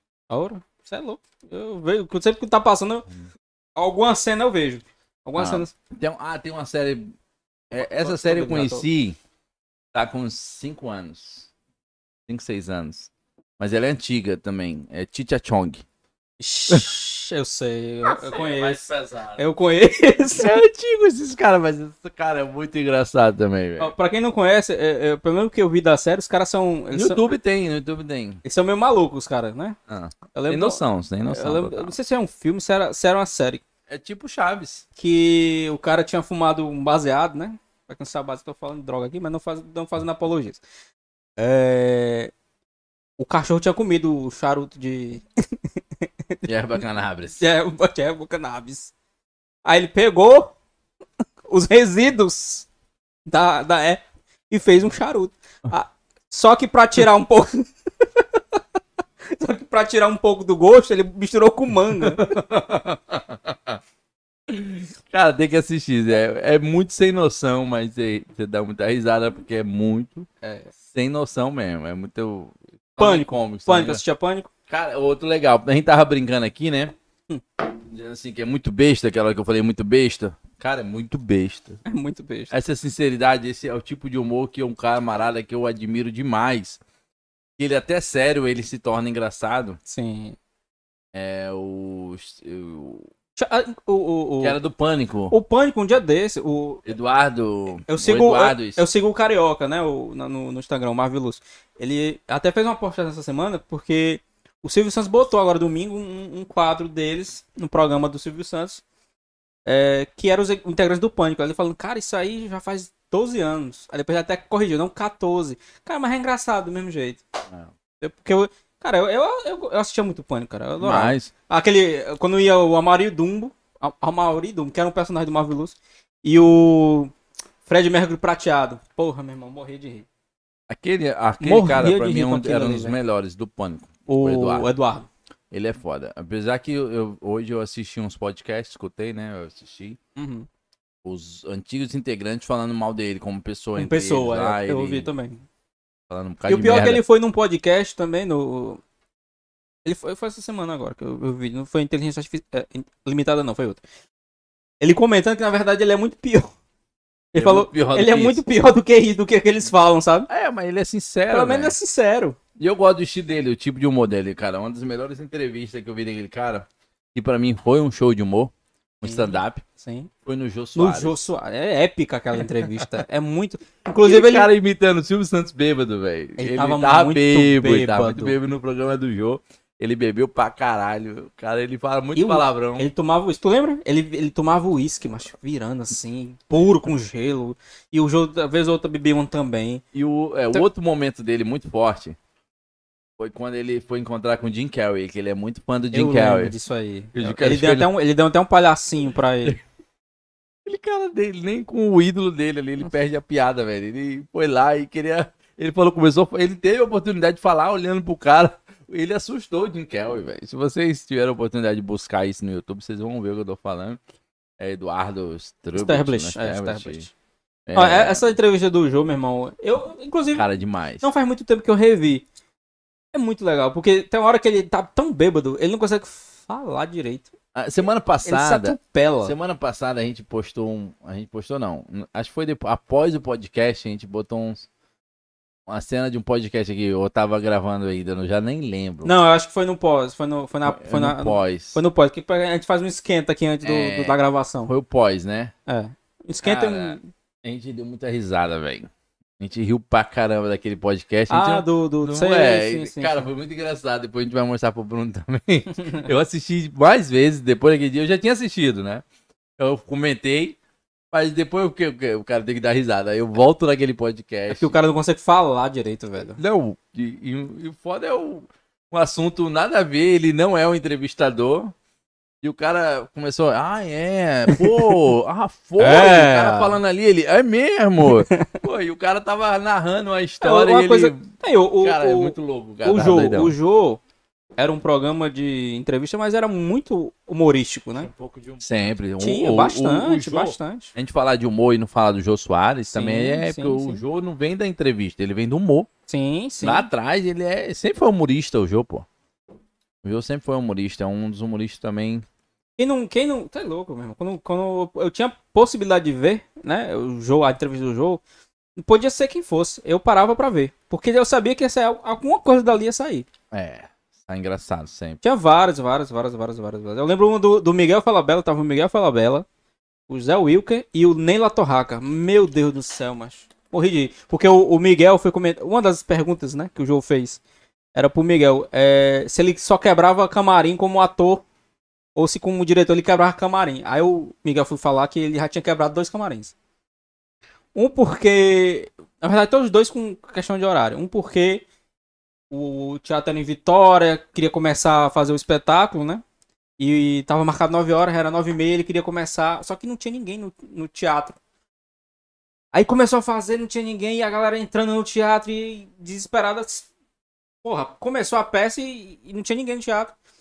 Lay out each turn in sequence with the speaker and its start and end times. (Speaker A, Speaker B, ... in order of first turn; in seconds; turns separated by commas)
Speaker A: 0.3-3.1, Speaker A: 3.8-5.7, Speaker B: 5.4-7.1, Speaker B: 7.7-9.2, Speaker A: 7.8-8.9, Speaker B: 9.9-11.5, Speaker B: 12.3-15.8, Speaker A: 16.4-18.8, Speaker C: 18.1-19.5, Speaker A: 19.4-20.6, Speaker B: 20.3-23.9, Speaker A: 23.8-27.2, Speaker B: 26.9-28.4, Speaker A: 28.4-29.8, Speaker B: 29.9-31.9, Speaker A: 30.3-33.6, Speaker B: 33.9-34.9, Speaker A: 35.0-40.6, Speaker A: 41.4-42.3, Speaker A: 43.2-45.2, Speaker B: 46.5-47.4, Speaker A: 47.4-48.9, Speaker A: 49.6-50.5, Speaker A: 51.5-52.7, Speaker A: 53.3-58.4, Speaker A: 59.3-62.2, Speaker B: 62.0-63.8, Speaker B: 64.5-70.3, Speaker A: 70.4-70.7, Speaker B: 70.9-74.0, Speaker A: 73.0-74.5, Speaker B: 74.7-76.9, Speaker B: 77.9-81.8, Speaker A: 81.8-82.5, Speaker B: 82.5-86.8, Speaker B: 87.6-89.8, Speaker A: 89.9-90.4, Speaker B: 91.1-93.1, Speaker A: 93.4-94.6, Speaker B: 94.4-95.3, Speaker A: 95.3-96.8, Speaker B: 96.9-98.8, Speaker A: 97.9-108.8, Speaker A: 109.7-117.2, Speaker A: 118.0-127.1, Speaker B: 120.8-121.3, Speaker A: 127.7-130.1, Speaker B: 130.7-134.7, Speaker A: 131.4-133.0, Speaker A: 134.1-135.1, Speaker B: 135.5-140.0, Speaker A: 140.2-140.5, Speaker B: 141.0-145.1, Speaker A: 143.8-145.4, Speaker B: 146.1-147.0, Speaker A: 146.5-148.8, Speaker A: 149.8-153.8, Speaker A: 154.8-156.5, Speaker A: 157.3-160.3, Speaker B: 157.3-158.4, Speaker B: 160.3-161.8, Speaker A: 161.3-162.4, Speaker B: 162.6-169.6, Speaker A: 169.0-170.1, Speaker B: 170.2-171.2, Speaker A: 170.8-174.5, Speaker B: 174.0-182.9, Speaker A: 176.4-178.4, Speaker A: 182.2-189.8, Speaker B: 189.9-192.2, Speaker B: 193.2-196.5, Speaker A: 195.9-199.6, Speaker B: 197.2-197.9, Speaker B: 200.7-214.0, Speaker B: 214.6-217.1, Speaker A: 215.8-217.1, Speaker B: 217.7-218.3, Speaker A: 217.8-220.5, Speaker B: 220.3-221.1, Speaker A: 221.0-222.2, Speaker A: 223.1-227.3, Speaker B: 227.6-234.7, Speaker A: 228.2-229.3, Speaker B: 235.7-239.2, Speaker A: 239.0-244.7, Speaker B: 240.7-241.8, Speaker B: 243.6-245.5, Speaker A: 245.7-247.1, Speaker B: 246.4-259.0, Speaker A: 251.3-253.3, Speaker B: 259.6-260.6, Speaker B: 261.1-264.7, Speaker A: 264.5-266.4, Speaker B: 266.4-271.7, Speaker B: 272.4-283.6, Speaker A: 274.5-275.0, Speaker A: 275.8-276.8, Speaker A: 278.0-278.6, Speaker A: 280.4-284.0, Speaker A: 284.6-288.1, Speaker C: 288.0-288.9, Speaker B: 288.6-295.9, Speaker A: 289.2-290.9, Speaker A: 292.9-294.0, Speaker A: 296.1-296.9, Speaker B: 296.6-299.1, Speaker B: 300.0-302.2, Speaker A: 302.8-308.2, Speaker A: 308.8-313.3, Speaker B: 313.5-315.2, Speaker A: 315.2-319.5, Speaker A: 320.1-327.4, Speaker A: 327.9-331.4, Speaker A: 332.2-336.5, Speaker A: 337.8-341.6, Speaker A: 342.5-346.2, Speaker A: 346.8-351.4, Speaker A: 352.7-356.9, Speaker A: 357.6-360.1